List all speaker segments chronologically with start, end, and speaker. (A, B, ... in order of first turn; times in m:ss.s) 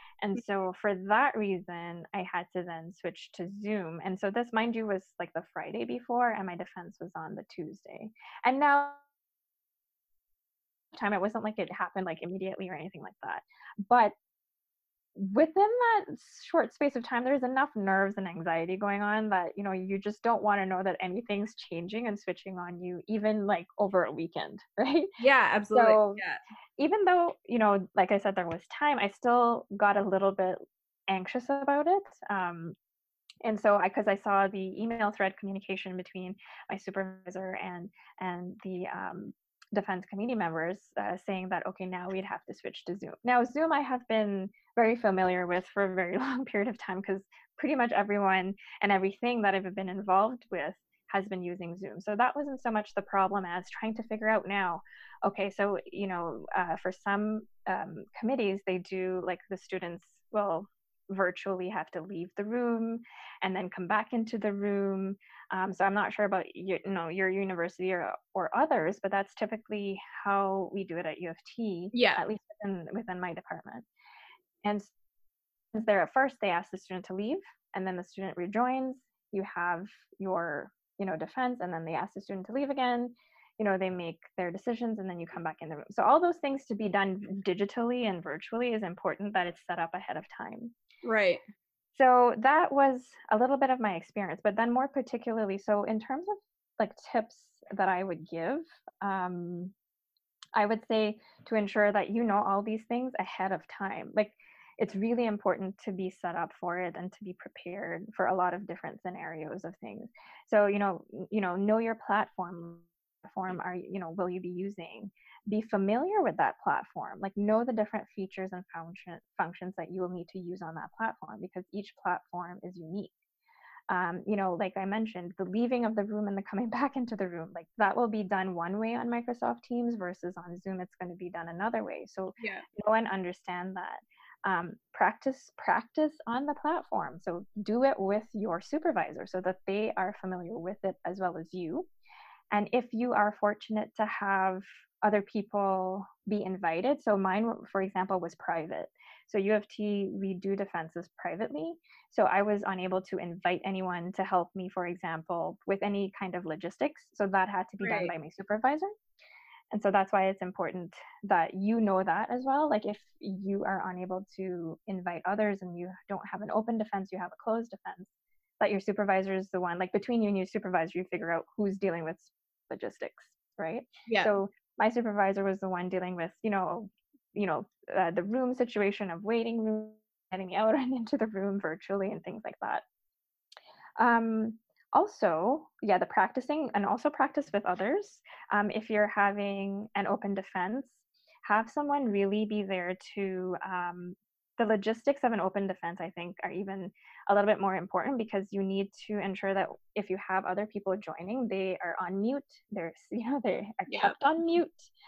0:00.2-0:09.0 A
0:10.9-0:14.1 A
0:15.2-0:25.1 A
0:25.2-0:26.4 B
0:25.7-0:26.2 A
0:26.8-0:32.8 A
0:33.4-1:13.9 A
1:11.9-1:12.2 B
1:15.7-1:30.7 A
1:31.0-1:31.4 B
1:32.0-1:39.7 A
1:40.6-2:03.1 A
2:03.9-2:21.9 A
2:12.4-2:12.6 B
2:22.5-2:38.9 A
2:37.8-2:38.1 B
2:39.7-3:02.8 A
2:54.1-2:54.3 B
3:04.0-3:24.9 A
3:23.9-3:24.2 B